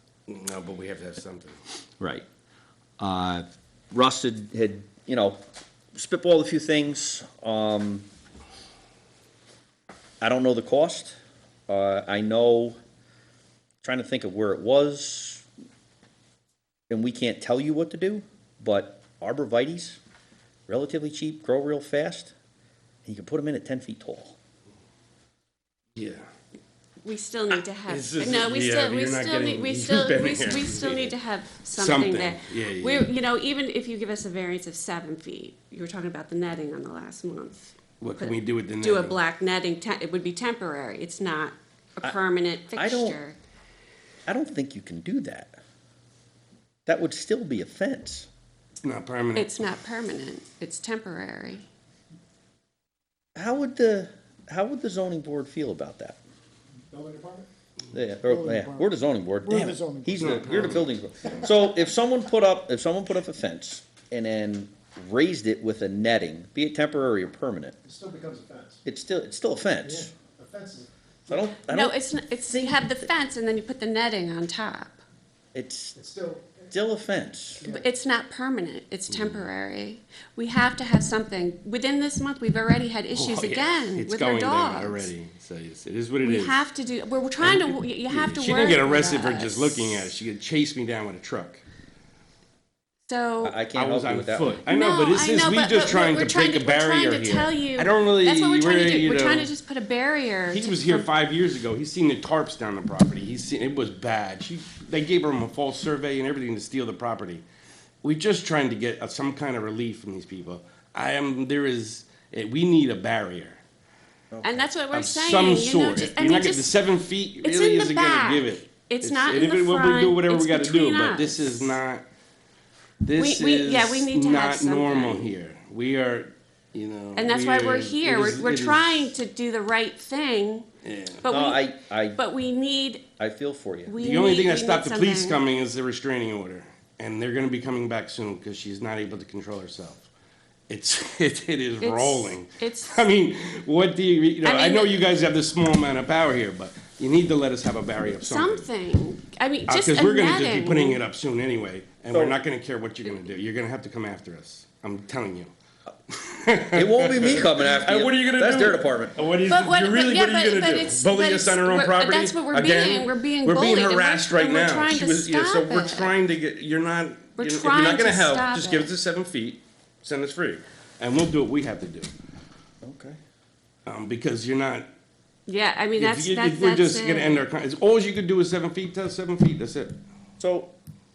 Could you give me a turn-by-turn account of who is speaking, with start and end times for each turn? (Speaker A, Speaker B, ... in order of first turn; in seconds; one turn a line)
Speaker A: 0.3-1.6
Speaker B: 3.0-5.4
Speaker B: 6.0-8.1
Speaker B: 10.2-11.2
Speaker B: 11.7-12.8
Speaker B: 13.8-15.5
Speaker B: 16.9-20.0
Speaker B: 20.7-22.3
Speaker B: 23.1-24.4
Speaker A: 26.0-26.2
Speaker C: 27.0-43.4
Speaker A: 27.5-31.2
Speaker A: 31.7-33.1
Speaker A: 38.0-39.2
Speaker B: 42.8-43.2
Speaker B: 44.3-45.6
Speaker B: 46.9-48.3
Speaker A: 48.8-49.6
Speaker C: 49.4-51.6
Speaker B: 53.4-56.2
Speaker D: 56.9-57.5
Speaker B: 57.9-67.8
Speaker D: 58.2-58.9
Speaker D: 59.4-60.3
Speaker A: 60.1-61.0
Speaker D: 67.8-68.8
Speaker B: 68.8-70.1
Speaker D: 69.8-70.9
Speaker B: 71.3-73.1
Speaker C: 71.7-75.0
Speaker B: 75.5-76.0
Speaker D: 76.0-76.7
Speaker B: 76.7-77.7
Speaker C: 77.7-85.1
Speaker A: 79.1-79.5
Speaker A: 83.2-86.7
Speaker C: 86.2-90.1
Speaker A: 87.4-91.6
Speaker C: 93.1-93.6
Speaker B: 93.4-94.6
Speaker A: 93.7-99.5
Speaker C: 94.5-101.1
Speaker A: 100.5-107.4
Speaker A: 108.0-113.6
Speaker B: 114.3-114.6
Speaker C: 114.4-116.7
Speaker A: 114.9-122.0
Speaker C: 117.4-121.8
Speaker A: 123.0-129.2
Speaker C: 123.2-125.3
Speaker C: 127.2-130.7
Speaker A: 130.8-131.2
Speaker C: 131.2-133.1
Speaker B: 131.3-132.2
Speaker B: 133.2-133.9
Speaker C: 133.9-135.4
Speaker A: 134.0-140.1
Speaker A: 140.7-148.7
Speaker C: 141.8-143.1
Speaker C: 144.4-145.0
Speaker C: 148.1-151.0
Speaker A: 149.7-155.5
Speaker B: 152.1-152.4
Speaker A: 156.1-172.1
Speaker B: 156.7-159.2
Speaker C: 159.4-166.1
Speaker C: 167.4-168.9
Speaker B: 172.8-173.2
Speaker A: 173.9-174.9
Speaker C: 175.5-177.4
Speaker A: 176.0-180.0
Speaker B: 180.4-180.7